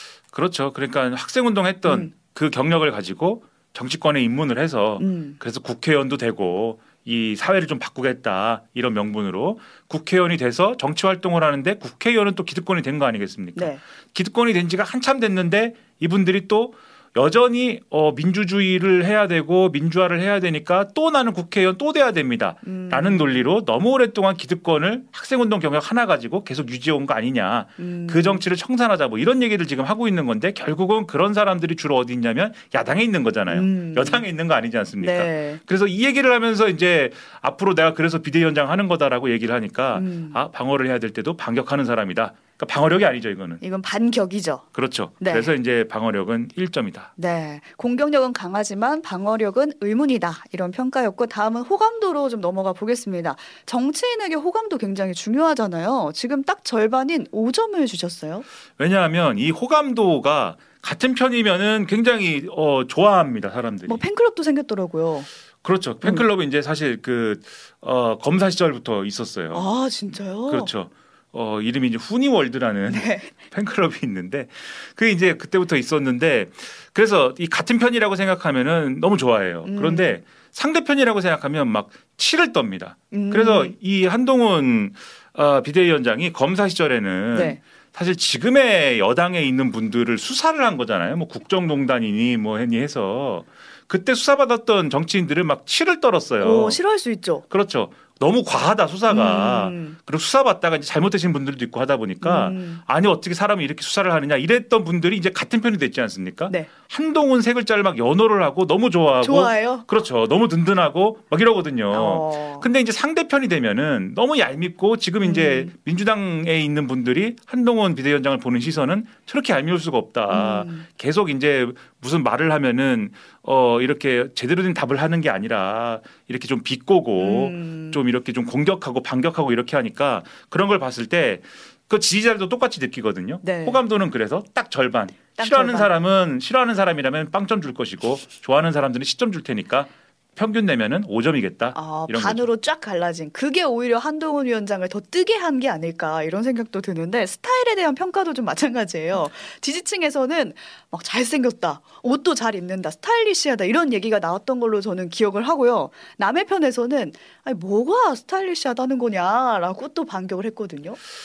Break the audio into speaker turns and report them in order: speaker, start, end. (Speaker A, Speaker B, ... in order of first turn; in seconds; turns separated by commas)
Speaker A: 0.3-43.6, Speaker B: 1.9-2.1, Speaker B: 5.0-5.4, Speaker B: 13.6-13.8, Speaker B: 22.6-23.4, Speaker B: 27.8-28.4, Speaker B: 33.5-34.3, Speaker B: 35.0-35.6, Speaker B: 39.9-40.4, Speaker B: 43.6-44.6, Speaker A: 44.7-47.1, Speaker B: 45.2-45.5, Speaker B: 47.2-58.5, Speaker A: 58.8-64.0, Speaker B: 63.9-65.3, Speaker A: 65.6-69.7, Speaker B: 69.5-70.7, Speaker A: 70.5-96.8, Speaker B: 72.9-73.3, Speaker B: 79.7-80.2, Speaker B: 83.1-83.8, Speaker B: 87.3-87.6, Speaker B: 96.4-97.4, Speaker A: 97.5-142.5, Speaker B: 99.1-100.0, Speaker B: 102.2-102.8, Speaker B: 109.2-109.9, Speaker B: 111.9-112.7, Speaker B: 115.2-115.7, Speaker B: 120.3-120.8, Speaker B: 127.2-128.0, Speaker B: 133.4-133.8, Speaker B: 135.4-135.9, Speaker B: 141.7-161.0